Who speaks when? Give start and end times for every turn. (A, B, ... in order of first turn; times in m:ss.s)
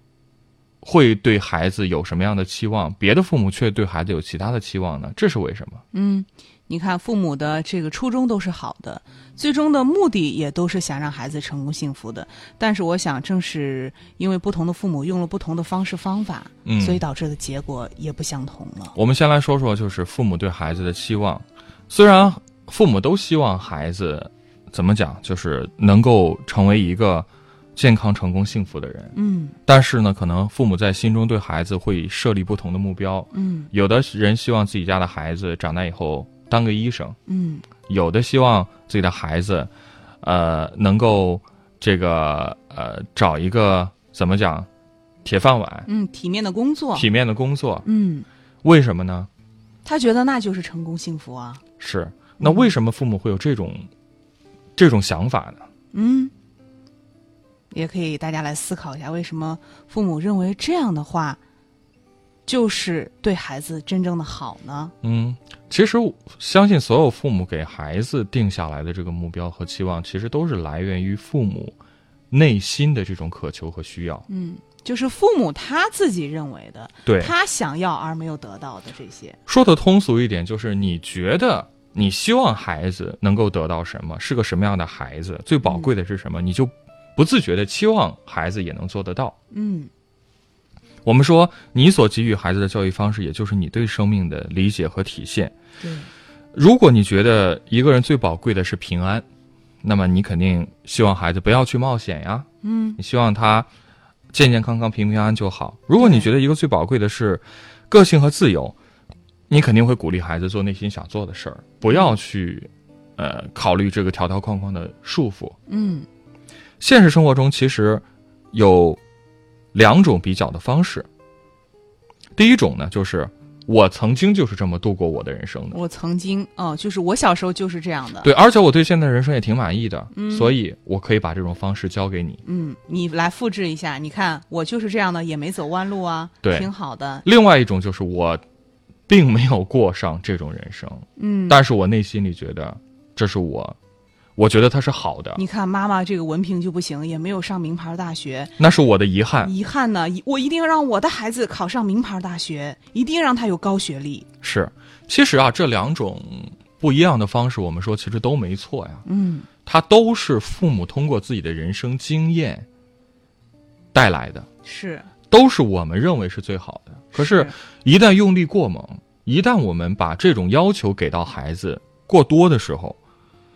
0:00.8-0:05.8 A
0:05.9-0:18.9 B
0:16.6-0:17.0 A
0:18.9-0:29.1 A
0:29.1-0:29.6 B
0:29.6-0:37.2 A
0:33.3-0:33.7 B
0:37.3-0:37.6 B
0:37.9-0:39.7 A
0:40.2-0:44.7 A
0:45.2-0:45.9 A
0:45.9-0:47.1 B
0:46.9-0:47.8 A
0:47.8-0:48.2 B
0:48.6-0:49.3 A
0:49.8-0:51.6 B
0:51.8-0:53.9 A
0:52.4-0:52.7 B
0:54.8-0:55.6 A
0:55.9-0:56.3 B
0:57.7-1:01.4 B
1:02.4-1:04.9 B
1:05.0-1:11.8 A
1:12.3-1:14.2 A
1:14.3-1:19.4 B
1:17.0-1:17.3 A
1:19.5-1:29.4 A
1:25.6-1:25.9 B
1:29.5-1:29.9 B
1:31.0-1:35.5 A
1:35.8-1:36.1 B
1:36.5-1:39.2 A
1:39.8-1:43.7 A
1:42.6-1:43.0 B
1:44.3-1:48.7 A
1:46.0-1:46.3 B
1:49.5-1:55.6 A
1:55.7-1:56.0 B
1:56.8-1:59.0 A
1:59.7-2:01.1 A
2:02.3-2:05.8 A
2:05.7-2:08.3 B
2:08.2-2:12.4 A
2:10.1-2:10.5 B
2:12.4-2:17.2 B
2:16.4-2:16.7 A
2:17.2-2:18.4 A
2:19.1-2:23.8 A
2:21.2-2:21.6 B
2:24.4-2:25.4 A
2:25.4-2:28.5 B
2:28.6-2:29.5 A
2:29.4-2:34.2 B
2:34.4-2:39.0 A
2:39.0-2:39.5 B
2:39.6-2:42.6 A
2:43.9-2:44.5 A
2:44.6-2:45.1 B
2:45.3-2:53.0 A
2:47.1-2:47.5 B